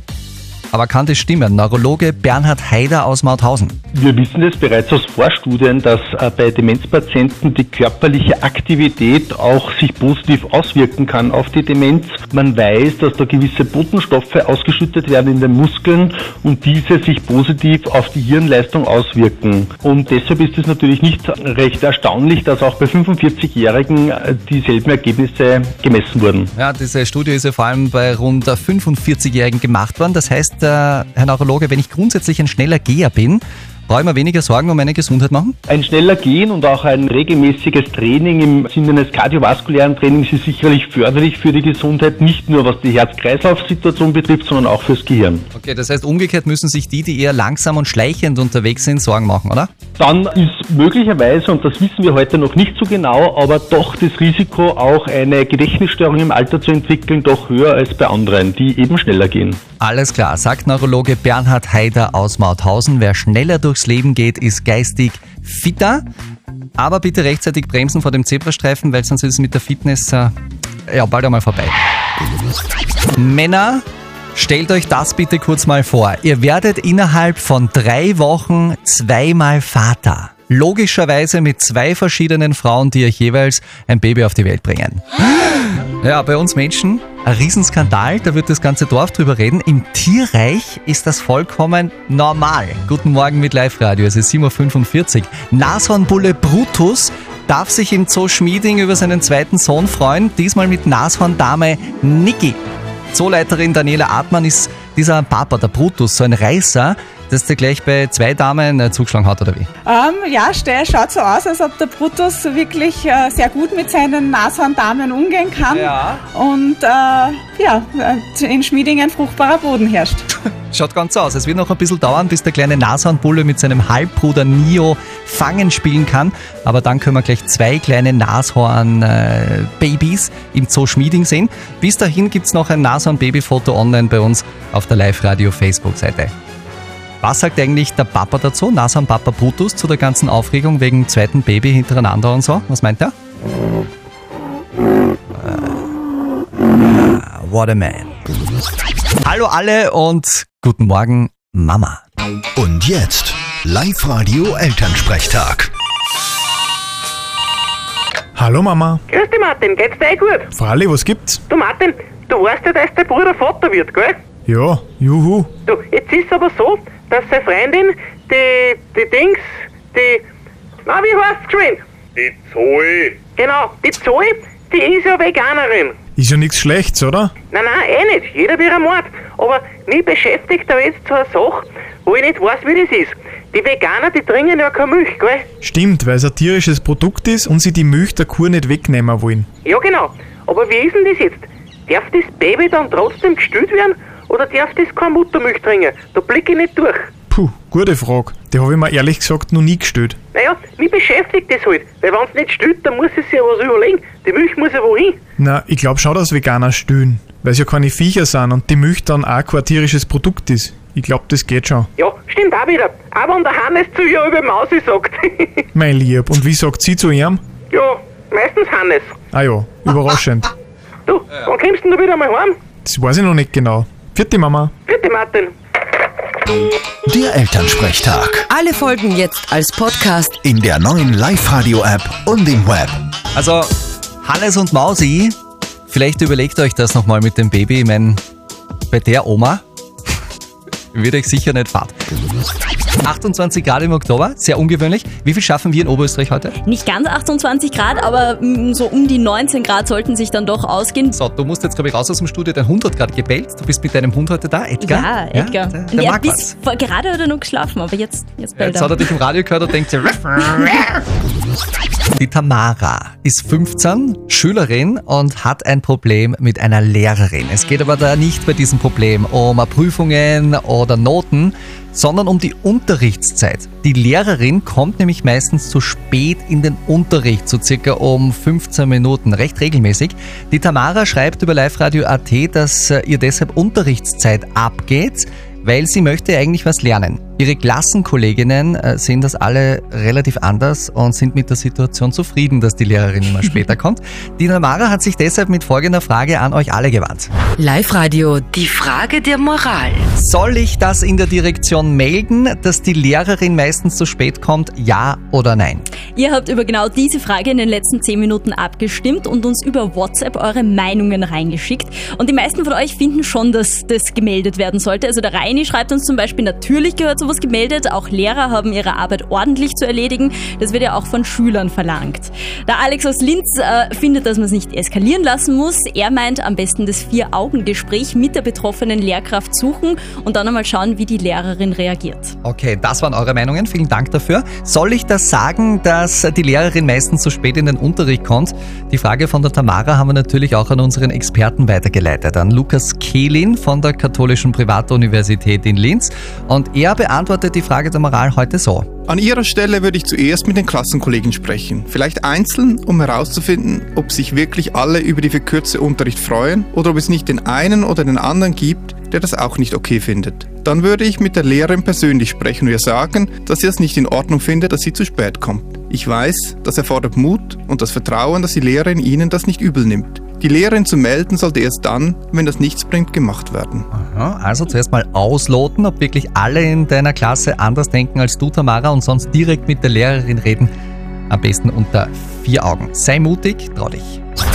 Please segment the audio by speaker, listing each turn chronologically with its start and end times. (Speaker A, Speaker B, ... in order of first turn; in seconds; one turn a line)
Speaker A: 0.7-3.8
Speaker B: 3.9-26.5
Speaker A: 26.5-35.6
Speaker B: 35.7-45.4
Speaker A: 45.5-49.7
Speaker B: 50.0-59.6
Speaker A: 59.8-66.0
Speaker A: 66.8-70.3
Speaker A: 70.9-71.7
Speaker A: 73.2-73.8
Speaker A: 74.3-102.6
Speaker A: 103.1-109.7
Speaker C: 109.9-120.2
Speaker A: 115.7-116.2
Speaker A: 120.7-136.3
Speaker A: 137.2-143.1
Speaker A: 145.3-145.8
Speaker A: 146.9-148.1
Speaker A: 149.2-152.0
Speaker D: 152.6-155.7
Speaker E: 158.4-159.0
Speaker F: 159.1-160.5
Speaker E: 160.5-161.4
Speaker F: 161.5-164.2
Speaker E: 164.5-165.5
Speaker F: 165.7-170.2
Speaker F: 170.8-176.0
Speaker E: 176.2-177.3
Speaker F: 177.5-185.5
Speaker E: 185.6-189.5
Speaker F: 189.7-197.1
Speaker E: 197.3-200.2
Speaker F: 200.3-205.2
Speaker E: 205.4-211.9
Speaker F: 212.0-215.7
Speaker E: 215.7-217.4
Speaker F: 217.7-219.2
Speaker E: 219.3-220.5
Speaker F: 221.1-222.6
Speaker E: 222.8-224.7
Speaker F: 224.9-225.5
Speaker D: 227.1-228.5
Speaker G: 228.5-230.4
Speaker D: 230.4-233.0
Speaker A: 233.3-233.7
Speaker A: 234.2-235.3
Speaker A: 235.9-238.2
Speaker A: 238.9-239.6
Speaker A: 240.9-241.9
Speaker A: 243.0-246.5
Speaker H: 246.6-251.2
Speaker A: 251.1-256.5
Speaker H: 254.8-259.1
Speaker A: 258.6-261.0
Speaker A: 262.1-297.3
Speaker G: 297.6-300.0
Speaker A: 300.1-305.9
Speaker H: 306.1-332.4
Speaker A: 332.4-348.9
Speaker I: 349.1-373.9
Speaker A: 373.9-380.7
Speaker A: 381.3-384.2